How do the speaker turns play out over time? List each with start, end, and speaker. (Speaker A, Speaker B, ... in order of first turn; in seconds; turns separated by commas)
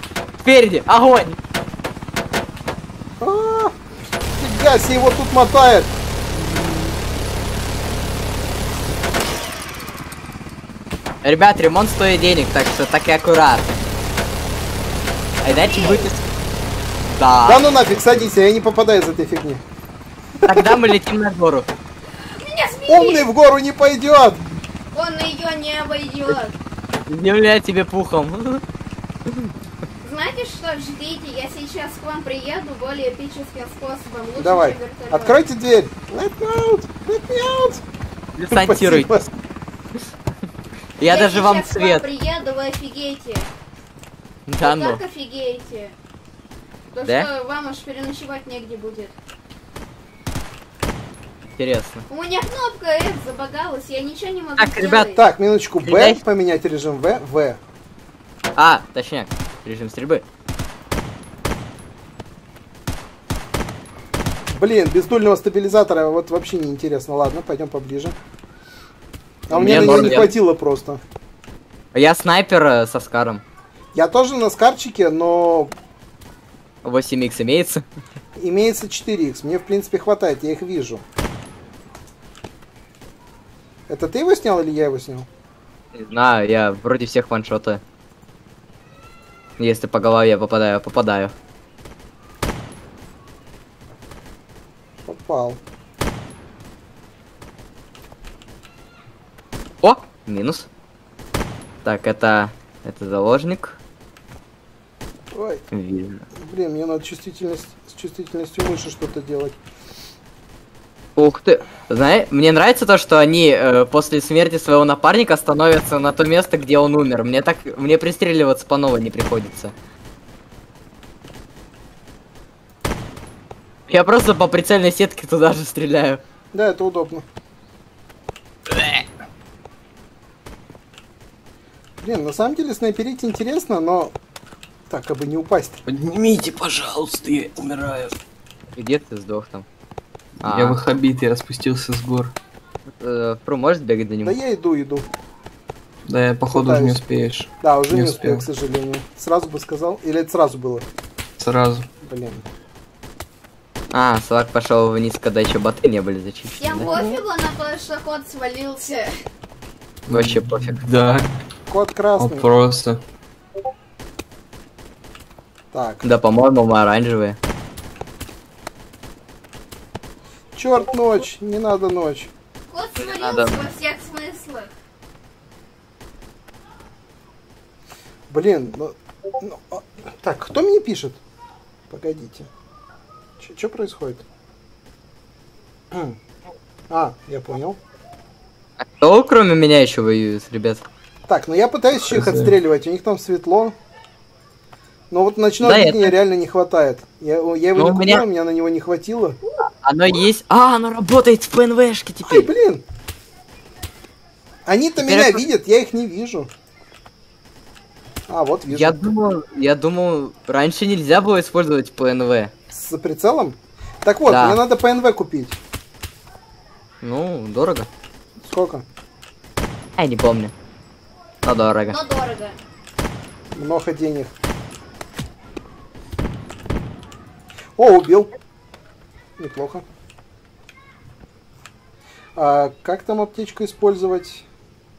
Speaker A: 0.4-1.4, Speaker B: 3.2-3.8, Speaker B: 4.4-6.0, Speaker A: 11.2-13.8, Speaker A: 15.4-16.1, Speaker C: 15.4-16.2, Speaker A: 17.1-18.3, Speaker B: 17.5-19.6, Speaker A: 20.4-21.7, Speaker B: 20.5-20.8, Speaker C: 22.4-23.3, Speaker B: 22.9-24.4, Speaker C: 24.9-26.6, Speaker A: 27.1-28.6, Speaker C: 30.0-35.4, Speaker B: 34.4-37.8, Speaker A: 38.4-39.1, Speaker B: 38.5-39.3, Speaker A: 41.0-42.0, Speaker C: 41.0-43.5, Speaker A: 44.5-45.0, Speaker C: 44.6-46.0, Speaker C: 46.9-49.1, Speaker A: 51.6-52.0, Speaker C: 52.1-55.2, Speaker A: 54.6-55.1, Speaker B: 55.1-57.6, Speaker A: 55.8-56.2, Speaker A: 58.6-60.2, Speaker B: 64.5-68.2, Speaker B: 69.5-71.0, Speaker A: 69.5-70.4, Speaker D: 69.6-70.2, Speaker A: 71.9-73.4, Speaker B: 73.9-75.8, Speaker A: 76.8-77.8, Speaker B: 78.4-81.0, Speaker B: 83.9-85.3, Speaker A: 86.0-87.8, Speaker A: 89.6-91.3, Speaker B: 95.0-95.6, Speaker A: 99.8-100.7, Speaker A: 101.8-103.8, Speaker B: 105.3-105.7, Speaker A: 105.7-106.2, Speaker B: 106.4-109.6, Speaker A: 111.2-119.7, Speaker A: 123.9-126.2, Speaker B: 126.5-127.2, Speaker B: 132.0-134.1, Speaker B: 134.9-135.8, Speaker D: 135.9-138.1, Speaker A: 138.8-139.7, Speaker A: 140.4-140.8, Speaker D: 140.4-142.3, Speaker A: 143.0-144.4, Speaker B: 144.2-145.1, Speaker D: 146.1-148.4, Speaker B: 146.5-147.0, Speaker B: 147.6-150.9, Speaker D: 151.4-151.9, Speaker B: 152.0-152.4, Speaker A: 153.9-156.9, Speaker C: 156.6-159.2, Speaker B: 156.8-157.2, Speaker D: 160.1-161.3, Speaker A: 160.1-160.8, Speaker B: 161.7-162.5, Speaker D: 162.2-163.0, Speaker B: 165.7-166.0, Speaker A: 166.0-167.4, Speaker B: 170.6-172.3, Speaker C: 172.7-174.7, Speaker A: 173.0-173.6, Speaker B: 178.3-181.2, Speaker B: 181.9-182.5, Speaker B: 183.4-184.2, Speaker B: 185.9-186.2, Speaker B: 186.9-187.8, Speaker A: 188.8-190.8, Speaker B: 191.3-193.8, Speaker D: 192.1-192.5, Speaker B: 195.1-199.4, Speaker A: 195.6-196.1, Speaker A: 197.8-198.2, Speaker A: 199.8-202.5, Speaker B: 202.3-202.8, Speaker B: 204.7-206.5, Speaker A: 205.0-205.4, Speaker B: 208.3-209.0, Speaker A: 208.7-212.5, Speaker B: 212.7-215.6, Speaker A: 214.3-214.6, Speaker A: 217.0-217.9, Speaker B: 218.4-218.8, Speaker A: 220.0-220.5, Speaker A: 221.4-222.0, Speaker C: 221.9-222.6, Speaker B: 223.5-224.3, Speaker B: 227.8-228.3, Speaker B: 229.4-229.8, Speaker B: 232.4-234.5